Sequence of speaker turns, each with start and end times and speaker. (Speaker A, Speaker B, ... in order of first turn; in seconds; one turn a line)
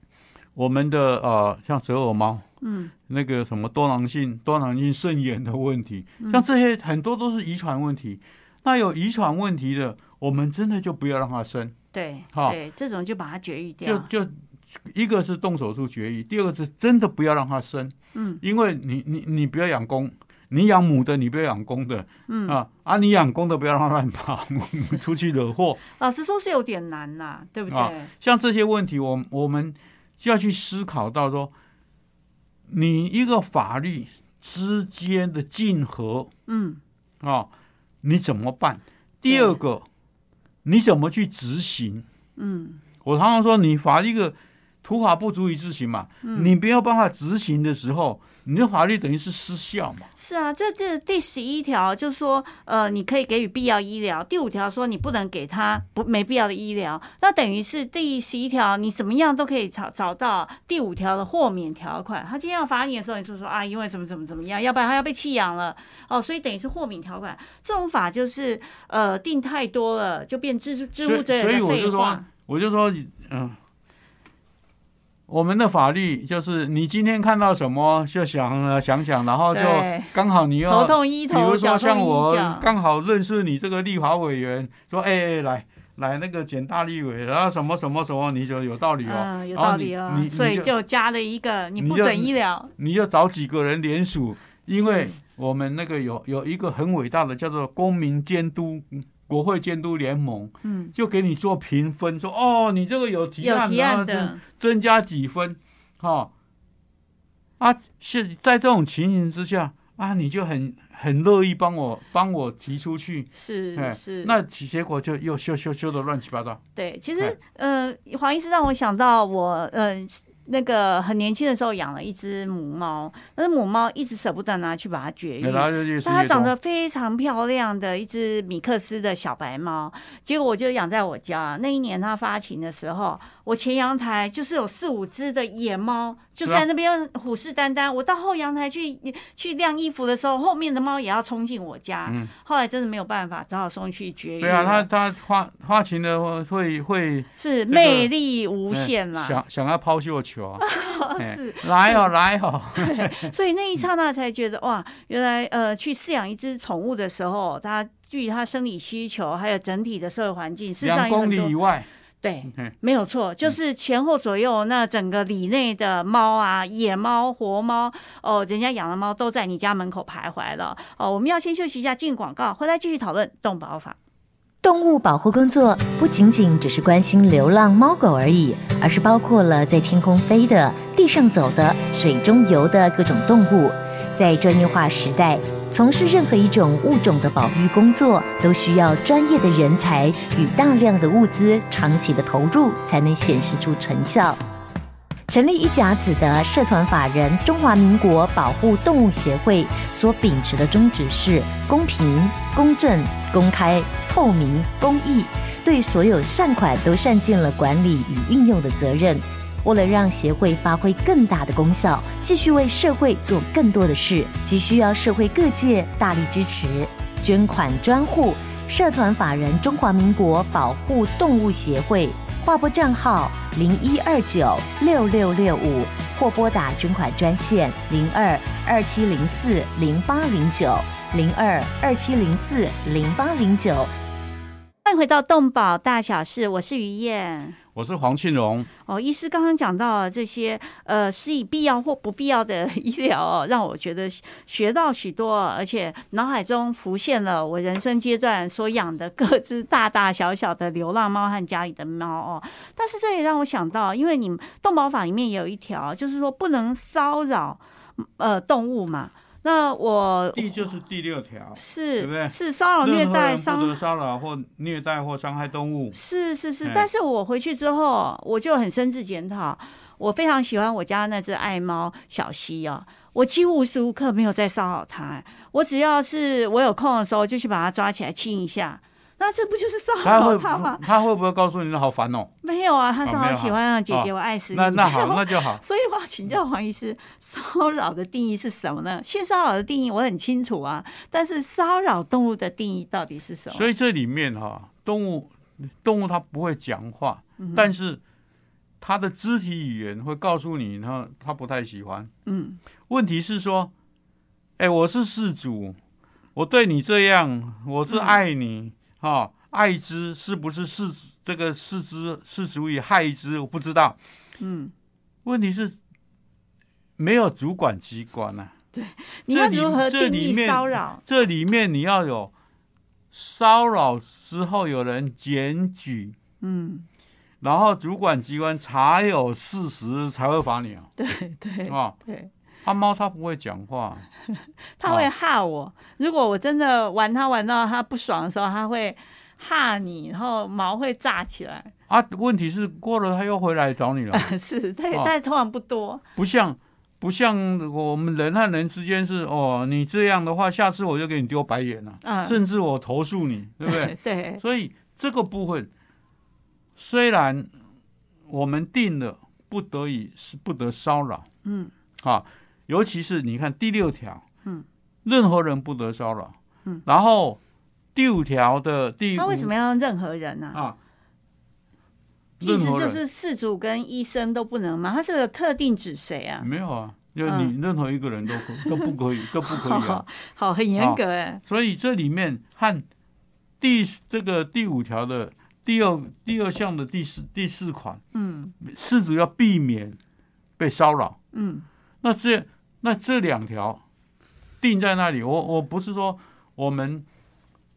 Speaker A: 0.6-2.5
Speaker B: 2.6-2.9
Speaker A: 3.1-11.8
Speaker B: 6.2-6.5
Speaker B: 11.9-14.1
Speaker A: 13.8-25.8
Speaker B: 18.1-18.4
Speaker B: 22.3-22.6
Speaker B: 26.0-28.1
Speaker A: 27.7-31.5
Speaker A: 32.7-36.3
Speaker B: 36.5-36.8
Speaker A: 37.2-37.5
Speaker A: 38.0-39.9
Speaker B: 39.3-39.6
Speaker A: 40.6-42.1
Speaker B: 42.4-42.8
Speaker A: 43.0-50.1
Speaker B: 46.2-46.5
Speaker B: 50.2-72.3
Speaker A: 71.0-73.6
Speaker A: 75.3-90.7
Speaker B: 79.5-80.1
Speaker B: 80.7-82.7
Speaker B: 89.0-92.7
Speaker A: 91.8-106.3
Speaker B: 94.7-95.2
Speaker B: 100.6-100.9
Speaker B: 103.4-104.4
Speaker A: 107.6-116.6
Speaker B: 113.3-114.4
Speaker B: 116.8-144.9
Speaker A: 125.4-126.5
Speaker A: 142.1-142.3
Speaker A: 144.4-148.1
Speaker B: 147.4-149.4
Speaker A: 148.7-153.3
Speaker B: 150.6-152.1
Speaker B: 152.8-161.6
Speaker A: 160.8-161.9
Speaker B: 162.2-174.0
Speaker C: 174.6-194.4
Speaker C: 195.3-233.9
Speaker B: 234.8-237.6
Speaker A: 237.7-238.7
Speaker B: 238.9-260.7
Speaker A: 260.4-266.0
Speaker B: 261.6-263.8
Speaker B: 265.9-280.8
Speaker A: 280.0-282.3
Speaker B: 282.4-293.7
Speaker A: 283.0-285.6
Speaker A: 293.5-298.0
Speaker B: 297.4-297.7
Speaker A: 298.8-302.1
Speaker B: 302.3-302.6
Speaker A: 302.9-303.7
Speaker A: 304.6-305.8
Speaker A: 306.4-314.0
Speaker B: 307.9-308.2
Speaker B: 314.4-314.7
Speaker A: 315.2-315.8
Speaker A: 317.0-318.5
Speaker B: 318.7-321.0
Speaker A: 319.3-322.3
Speaker A: 323.1-326.2
Speaker B: 326.4-326.9
Speaker A: 327.4-330.9
Speaker B: 331.0-332.3
Speaker A: 331.7-332.0
Speaker A: 332.6-334.1
Speaker B: 334.3-341.7
Speaker A: 341.9-344.3
Speaker B: 344.1-346.0
Speaker A: 346.2-355.7
Speaker B: 352.0-352.4
Speaker B: 353.6-354.4
Speaker A: 356.8-357.5
Speaker A: 358.3-361.3
Speaker B: 361.4-361.7
Speaker A: 362.0-364.2
Speaker A: 365.1-367.4
Speaker A: 367.9-369.5
Speaker B: 369.1-370.6
Speaker A: 372.4-373.0
Speaker B: 372.4-376.5
Speaker A: 376.4-380.0
Speaker B: 377.3-377.5
Speaker B: 378.3-381.4
Speaker A: 380.8-382.9
Speaker A: 383.6-388.0
Speaker B: 388.1-388.6
Speaker A: 388.6-390.0
Speaker A: 390.6-391.2
Speaker B: 391.3-391.7
Speaker A: 392.0-393.8
Speaker A: 394.6-397.1